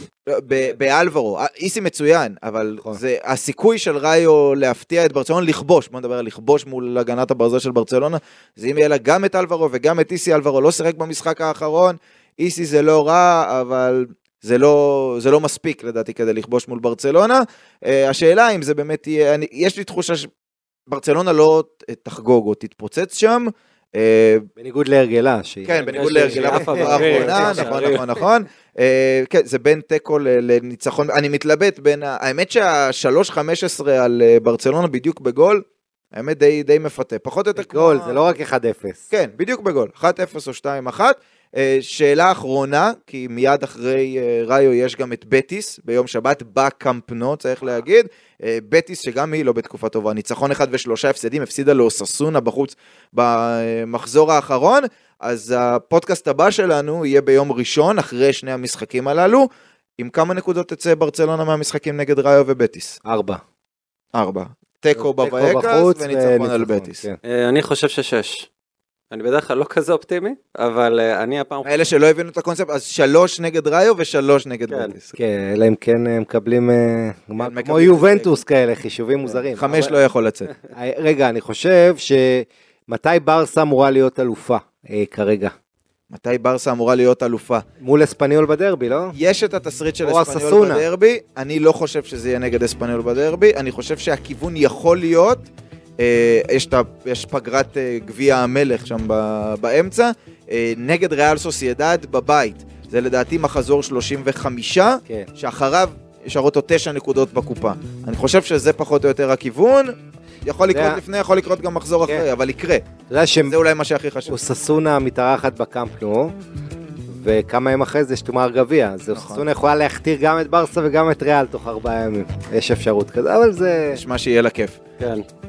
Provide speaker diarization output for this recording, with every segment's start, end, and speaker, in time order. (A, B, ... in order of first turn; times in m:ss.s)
0:00.3-0:20.3 A
0:20.9-0:24.4 A
0:24.6-0:28.0 B
0:25.6-0:38.3 A
0:25.9-0:28.1 C
0:37.6-0:39.0 B
0:39.1-1:03.0 A
1:03.0-1:03.4 B
1:04.1-1:07.0 A
1:05.0-1:07.2 B
1:07.2-1:08.5 C
1:09.1-1:11.7 C
1:11.6-1:15.2 A
1:15.2-1:19.9 B
1:17.4-1:18.4 A
1:19.5-1:20.5 A
1:20.7-1:25.5 B
1:26.1-1:27.6 A
1:27.8-1:29.2 B
1:29.1-1:35.4 A
1:30.0-1:30.8 B
1:36.0-1:52.8 A
1:50.7-1:51.0 B
1:53.1-1:53.6 B
1:53.5-1:54.4 A
1:54.3-1:56.3 B
1:57.1-2:04.0 B
1:59.1-1:59.4 A
2:03.9-2:04.8 A
2:05.0-2:05.2 C